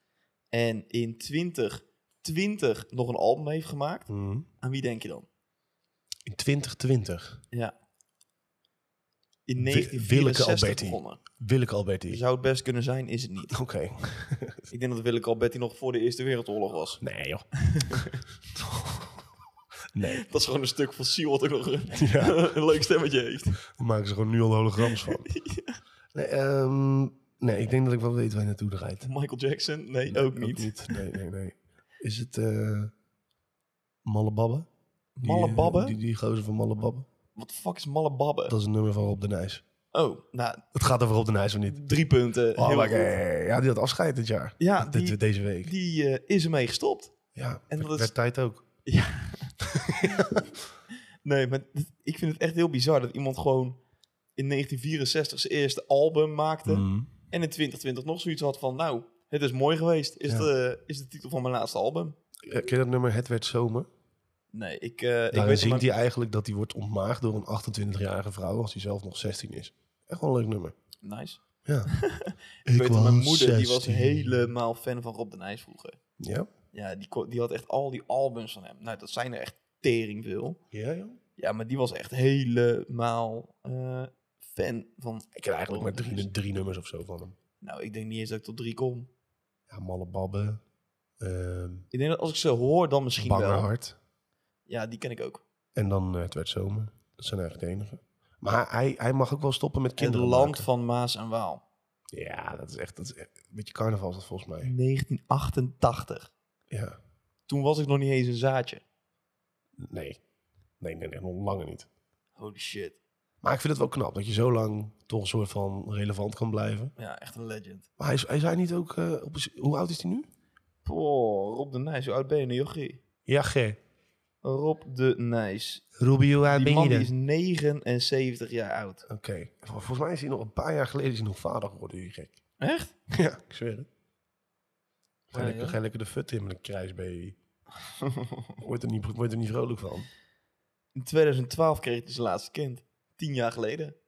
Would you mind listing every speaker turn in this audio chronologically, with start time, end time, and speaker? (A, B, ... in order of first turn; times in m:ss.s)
0:00.5-0:04.1 A
0:04.1-0:04.5 B
0:04.6-0:05.3 A
0:06.2-0:07.4 B
0:09.4-0:11.2 A
0:09.6-0:12.2 B
0:12.1-0:13.6 A
0:13.5-0:14.6 B
0:14.7-0:17.0 A
0:17.0-0:18.0 B
0:17.6-0:18.2 A
0:18.6-0:19.1 B
0:19.9-0:20.2 B
0:20.1-0:23.6 A
0:21.9-0:22.5 B
0:23.6-0:25.3 B
0:24.8-0:25.8 A
0:26.1-0:29.1 B
0:29.0-0:31.0 A
0:30.1-0:32.9 B
0:34.0-0:34.7 B
0:35.2-0:36.0 A
0:35.2-0:37.0 B
0:37.3-0:38.5 A
0:38.5-0:39.6 B
0:39.9-0:40.6 A
0:40.7-0:41.8 B
0:41.7-0:43.1 A
0:42.6-0:45.7 B
0:44.6-0:47.1 A
0:47.3-0:48.6 B
0:47.7-0:48.1 A
0:48.8-0:50.4 A
0:49.6-0:50.5 B
0:51.2-0:53.8 A
0:54.4-1:02.2 A
0:56.6-0:57.1 B
1:02.5-1:03.9 B
1:04.5-1:05.8 A
1:05.3-1:10.7 B
1:11.0-1:16.0 A
1:11.6-1:11.9 B
1:12.6-1:14.5 B
1:16.2-1:16.5 B
1:16.7-1:20.6 A
1:20.7-1:21.2 B
1:21.4-1:26.3 A
1:25.4-1:27.4 B
1:27.6-1:29.1 A
1:29.7-1:30.6 B
1:31.2-1:31.9 B
1:31.9-1:33.7 A
1:33.2-1:34.0 B
1:34.7-1:35.4 A
1:35.7-1:40.7 B
1:40.0-1:41.6 A
1:42.1-1:44.7 B
1:44.6-1:46.3 A
1:46.7-1:47.0 B
1:47.5-1:48.8 A
1:49.8-1:50.2 B
1:50.8-1:51.9 B
1:52.4-1:53.0 A
1:53.4-1:56.9 B
1:57.0-1:57.8 A
1:58.0-2:00.3 B
2:00.8-2:03.0 A
2:03.2-2:03.8 B
2:04.4-2:05.8 A
2:06.0-2:07.1 B
2:06.5-2:09.0 A
2:09.0-2:12.4 B
2:12.6-2:12.9 A
2:13.1-2:13.9 B
2:15.3-2:17.4 B
2:15.3-2:15.8 A
2:18.0-2:18.5 A
2:18.6-2:20.1 B
2:21.0-2:24.0 A